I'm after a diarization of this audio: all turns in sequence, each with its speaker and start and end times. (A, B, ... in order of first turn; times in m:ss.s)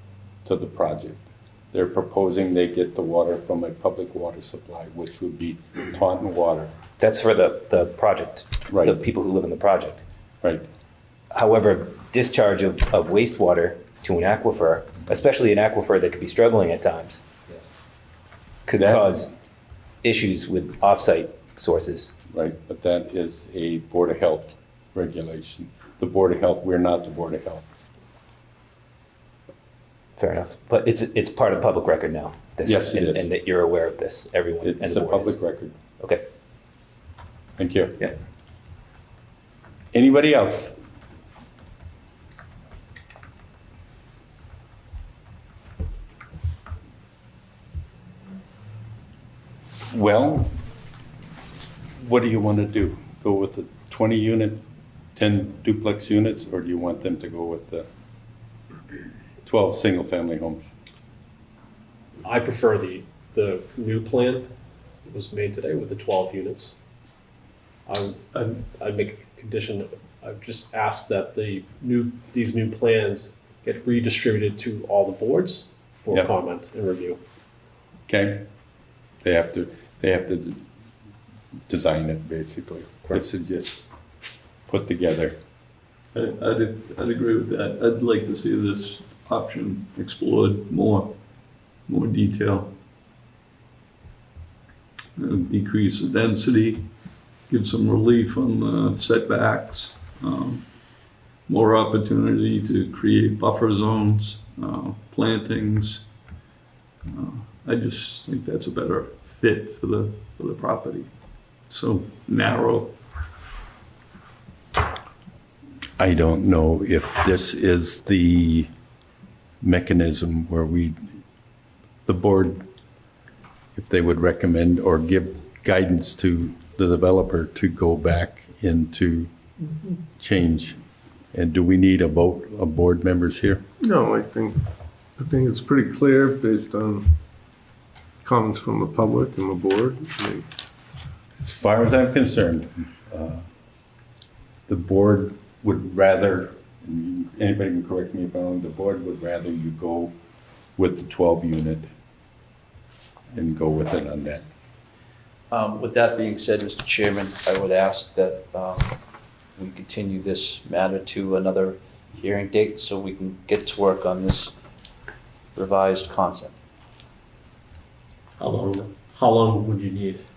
0:00.4-0:01.2 A
0:01.7-0:06.7 A
0:07.0-0:10.0 B
0:08.7-0:09.0 A
0:11.3-0:17.2 B
0:18.6-0:19.3 B
0:20.0-0:22.1 B
0:22.3-0:27.6 A
0:30.2-0:35.4 B
0:32.6-0:33.3 A
0:34.6-0:35.7 A
0:37.6-0:38.0 A
0:39.9-0:40.7 A
0:49.9-0:50.5 A
0:52.0-0:54.6 A
0:55.2-0:57.9 A
0:59.4-1:00.7 A
1:02.2-1:04.5 C
1:05.0-1:06.7 C
1:07.9-1:17.2 C
1:18.1-1:18.5 A
1:19.2-1:20.6 A
1:21.7-1:23.9 A
1:24.7-1:25.4 A
1:26.1-1:31.2 D
1:31.8-1:32.7 D
1:35.2-1:40.8 D
1:41.5-1:46.1 D
1:47.0-1:51.1 D
1:51.7-1:53.0 D
1:56.0-1:58.7 A
1:59.6-2:01.0 A
2:02.0-2:02.6 A
2:03.8-2:09.3 A
2:10.2-2:10.8 A
2:11.3-2:13.6 A
2:13.8-2:14.6 E
2:15.2-2:17.1 E
2:18.2-2:20.4 E
2:21.4-2:23.5 A
2:24.7-2:30.1 A
2:30.8-2:31.9 A
2:33.3-2:34.4 A
2:35.5-2:39.0 F
2:39.6-2:44.5 F
2:45.5-2:46.5 F
2:48.4-2:50.2 C